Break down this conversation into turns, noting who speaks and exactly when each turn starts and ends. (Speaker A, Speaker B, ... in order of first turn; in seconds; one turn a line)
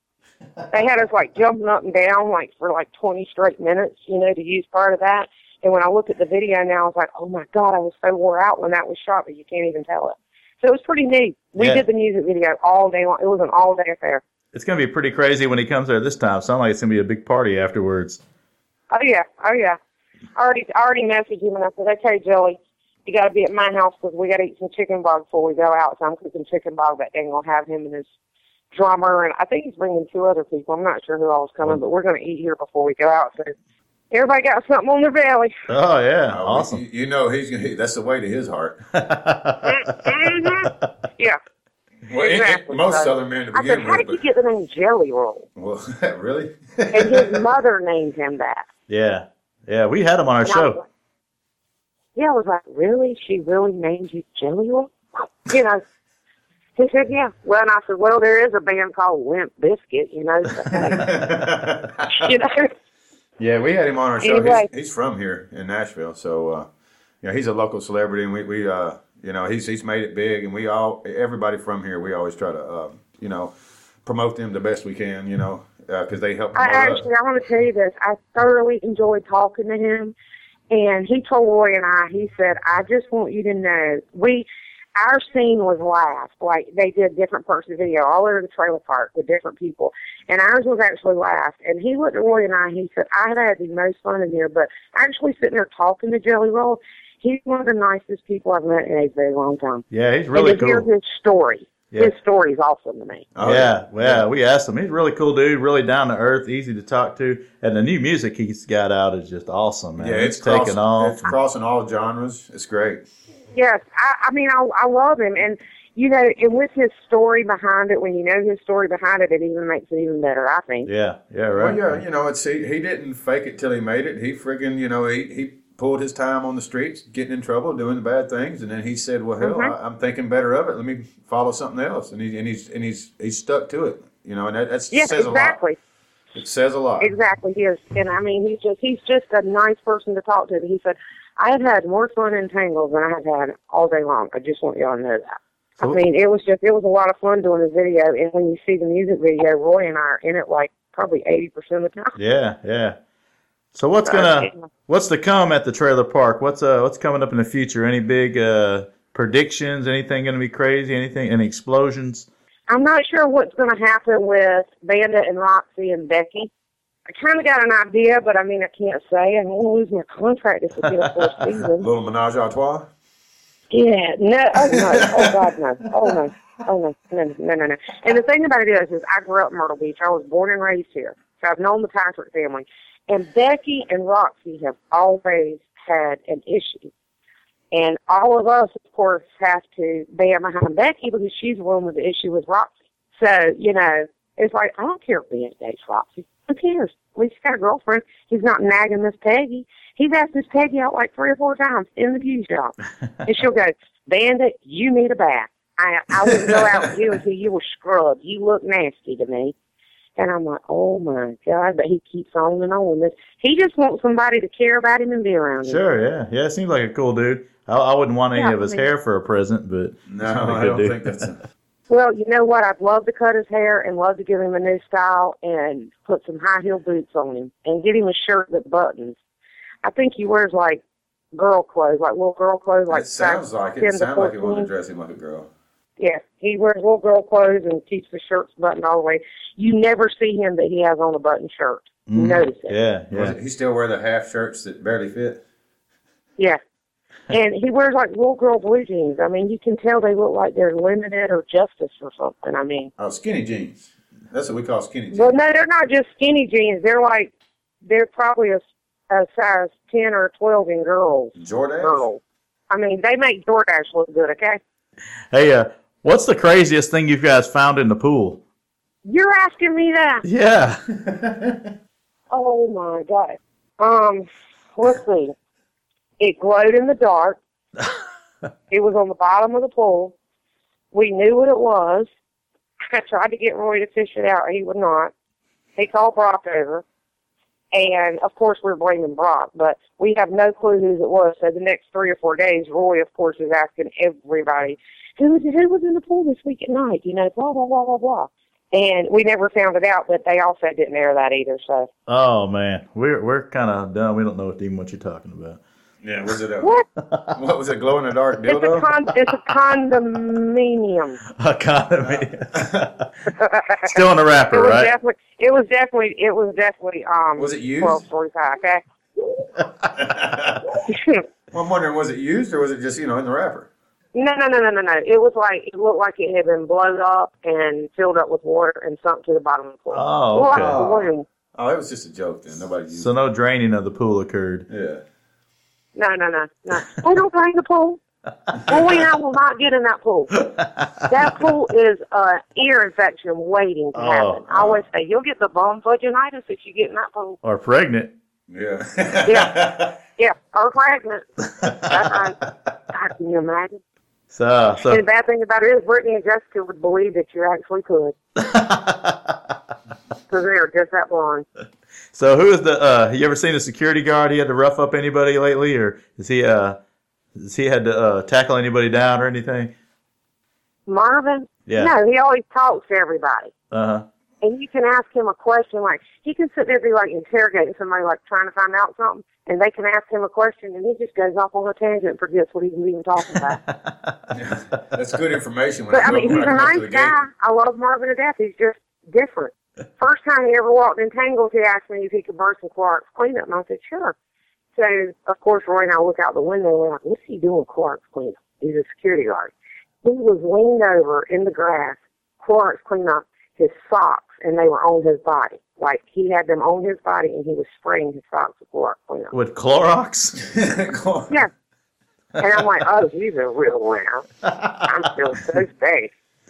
Speaker A: 0.7-14.2
Speaker B: 11.6-11.8
Speaker B: 14.5-18.2
Speaker A: 18.9-19.8
Speaker A: 20.3-28.1
Speaker A: 28.7-33.5
Speaker A: 34.1-35.5
Speaker B: 35.7-36.8
Speaker C: 36.3-38.8
Speaker B: 38.9-40.0
Speaker A: 39.6-41.4
Speaker C: 42.1-44.2
Speaker A: 42.1-45.5
Speaker C: 45.5-47.4
Speaker A: 46.9-48.7
Speaker B: 48.9-50.8
Speaker A: 50.4-50.8
Speaker A: 52.1-55.8
Speaker A: 56.8-61.1
Speaker C: 60.9-62.3
Speaker A: 62.1-62.7
Speaker C: 63.4-66.7
Speaker A: 64.2-64.7
Speaker C: 67.2-73.5
Speaker C: 74.0-77.0
Speaker A: 76.5-80.1
Speaker A: 80.7-103.2
Speaker B: 99.9-100.9
Speaker C: 103.3-104.2
Speaker B: 103.4-111.3
Speaker C: 110.0-113.0
Speaker A: 113.5-120.9
Speaker B: 120.8-122.0
Speaker C: 121.5-135.6
Speaker A: 129.4-129.7
Speaker A: 134.9-135.8
Speaker C: 136.3-137.1
Speaker A: 137.0-152.2
Speaker B: 152.2-153.0
Speaker B: 153.7-162.3
Speaker A: 154.0-154.7
Speaker A: 162.7-166.5
Speaker A: 167.1-171.9
Speaker C: 171.8-172.9
Speaker A: 173.7-186.9
Speaker A: 187.7-209.5
Speaker A: 210.2-215.8
Speaker B: 215.6-221.1
Speaker A: 218.3-218.8
Speaker C: 220.1-221.4
Speaker A: 221.9-229.2
Speaker A: 229.8-230.8
Speaker A: 231.3-234.7
Speaker C: 232.9-235.5
Speaker A: 236.0-242.7
Speaker B: 242.1-243.4
Speaker C: 243.1-245.4
Speaker A: 247.3-252.9
Speaker C: 253.0-255.3
Speaker A: 255.1-257.3
Speaker A: 257.8-264.6
Speaker C: 261.4-262.1
Speaker B: 265.3-268.4
Speaker A: 269.0-270.2
Speaker B: 270.2-270.8
Speaker C: 270.9-271.6
Speaker A: 272.3-275.3
Speaker A: 276.2-277.4
Speaker A: 278.7-280.1
Speaker A: 280.9-282.1
Speaker A: 282.9-285.1
Speaker A: 285.8-286.8
Speaker A: 287.7-301.9
Speaker B: 302.1-305.6
Speaker C: 306.0-306.7
Speaker B: 307.0-307.4
Speaker C: 307.3-308.9
Speaker A: 308.4-311.2
Speaker B: 311.3-312.9
Speaker C: 312.5-312.9
Speaker A: 313.3-318.8
Speaker B: 313.8-314.9
Speaker C: 317.4-318.0
Speaker C: 319.9-320.7
Speaker A: 320.9-321.2
Speaker C: 321.5-323.7
Speaker A: 324.1-331.2
Speaker B: 329.9-330.8
Speaker C: 330.5-333.1
Speaker B: 332.9-334.6
Speaker C: 334.7-335.0
Speaker A: 335.9-338.0
Speaker B: 338.5-338.7
Speaker A: 338.6-340.4
Speaker B: 340.4-341.1
Speaker A: 341.1-347.4
Speaker B: 343.9-344.4
Speaker C: 344.5-344.8
Speaker B: 347.4-348.1
Speaker C: 348.5-349.9
Speaker A: 349.2-352.4
Speaker B: 351.6-351.9
Speaker A: 352.9-353.8
Speaker B: 354.3-355.0
Speaker A: 354.9-358.1
Speaker B: 358.4-359.5
Speaker A: 360.3-361.4
Speaker B: 362.1-366.8
Speaker B: 367.3-369.7
Speaker A: 370.9-373.5
Speaker B: 371.7-371.9
Speaker B: 373.7-374.1
Speaker A: 374.4-383.6
Speaker B: 383.3-384.3
Speaker C: 384.3-387.1
Speaker A: 385.9-394.1
Speaker A: 394.7-409.3
Speaker B: 409.3-410.4
Speaker C: 410.4-411.3
Speaker A: 412.4-414.3
Speaker B: 414.5-414.8
Speaker A: 414.8-416.1